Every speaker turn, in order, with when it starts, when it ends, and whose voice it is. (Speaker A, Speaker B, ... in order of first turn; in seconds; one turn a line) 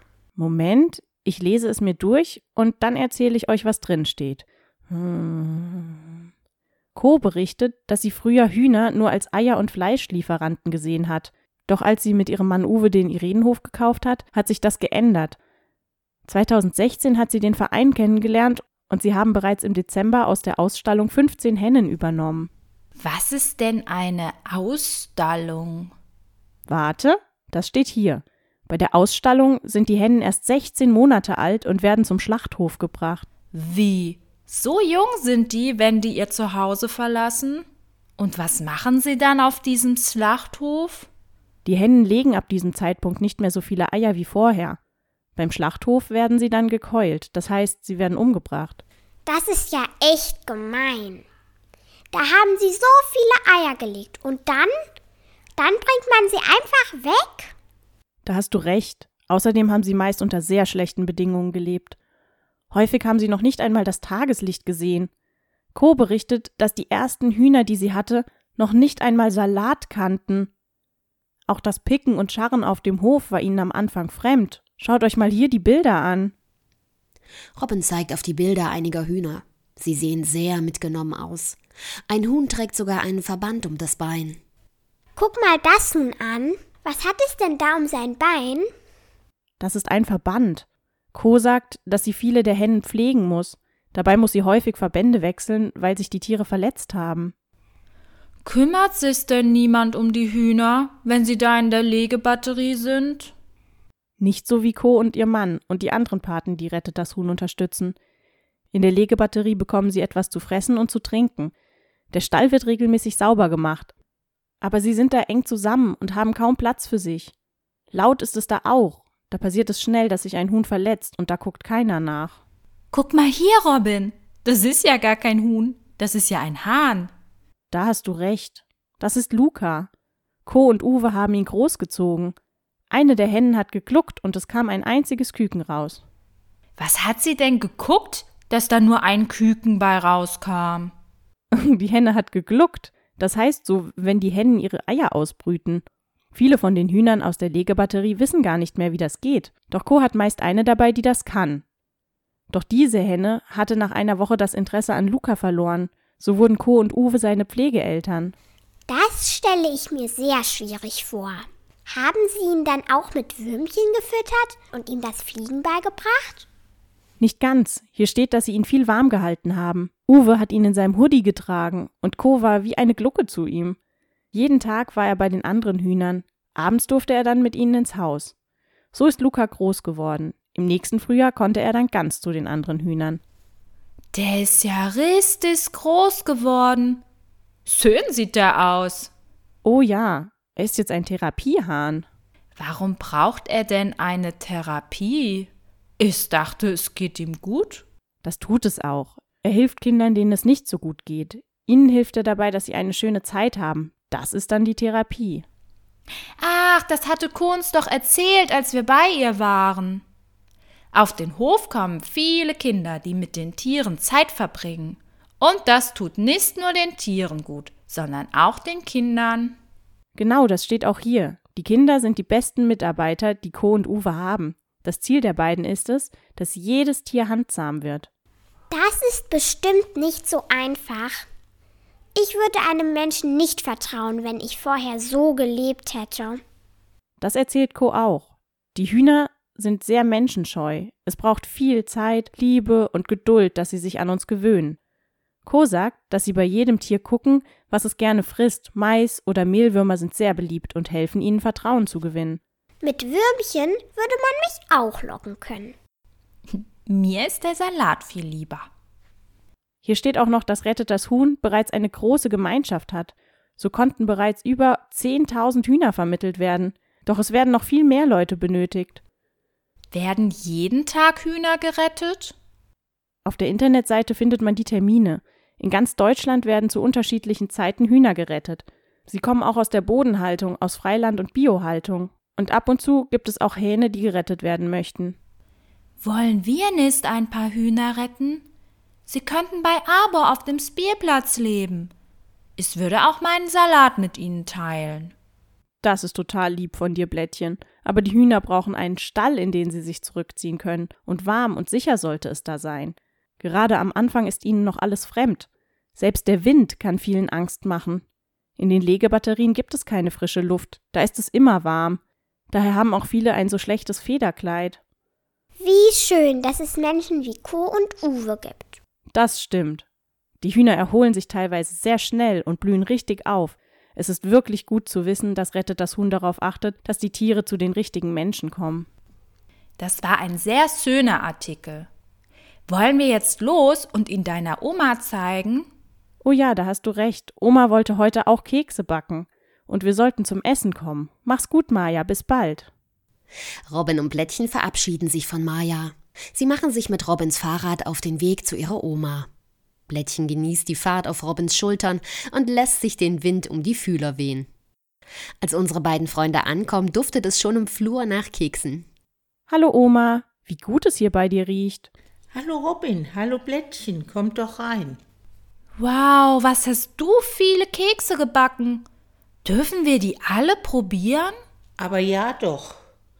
Speaker A: 0.3-6.2
Speaker A: 6.9-15.4
Speaker A: 16.3-22.5
Speaker B: 22.9-25.9
Speaker A: 26.7-33.2
Speaker B: 33.5-37.6
Speaker B: 38.2-41.1
Speaker A: 41.6-44.8
Speaker A: 45.4-48.8
Speaker C: 49.2-51.2
Speaker C: 52.1-54.7
Speaker C: 55.6-57.5
Speaker A: 58.2-62.0
Speaker A: 62.7-65.1
Speaker A: 65.7-70.5
Speaker A: 71.5-76.3
Speaker D: 77.5-81.6
Speaker D: 82.1-84.4
Speaker C: 85.2-88.7
Speaker A: 89.6-97.3
Speaker B: 98.4-103.3
Speaker A: 104.2-108.0
Speaker A: 108.7-111.5
Speaker A: 112.1-113.9
Speaker A: 114.6-117.3
Speaker A: 117.9-122.4
Speaker B: 122.9-127.1
Speaker A: 127.7-129.9
Speaker A: 130.4-132.3
Speaker A: 132.9-136.0
Speaker B: 136.8-140.9
Speaker A: 141.5-151.6
Speaker A: 152.5-158.3
Speaker C: 158.9-166.4
Speaker A: 167.2-173.8
Speaker A: 174.3-178.3
Speaker A: 178.9-183.2
Speaker B: 184.1-187.0
Speaker B: 187.7-189.1
Speaker A: 189.6-192.0
Speaker B: 192.6-197.8
Speaker A: 198.2-205.4
Speaker B: 206.4-210.0
Speaker B: 210.9-219.6
Speaker A: 220.2-228.1
Speaker C: 228.7-231.2
Speaker C: 232.1-236.4
Speaker A: 237.2-244.8
Speaker A: 245.4-252.4
Speaker C: 252.8-255.7
Speaker B: 256.5-258.7
Speaker A: 259.8-269.0
Speaker B: 269.9-272.3
Speaker A: 273.2-285.2
Speaker B: 286.0-288.4
Speaker B: 289.1-291.9
Speaker B: 292.6-295.1
Speaker A: 295.8-308.0
Speaker A: 308.6-312.0
Speaker A: 312.5-314.8
Speaker C: 315.6-318.8
Speaker A: 319.1-319.8
Speaker A: 320.4-328.9
Speaker B: 329.8-331.9
Speaker B: 332.7-335.7
Speaker A: 336.2-342.7
Speaker D: 343.7-349.3
Speaker D: 349.9-354.5
Speaker D: 355.4-358.9
Speaker A: 359.5-361.9
Speaker E: 362.3-365.0
Speaker B: 365.8-368.8
Speaker B: 369.4-371.4
Speaker E: 371.8-372.8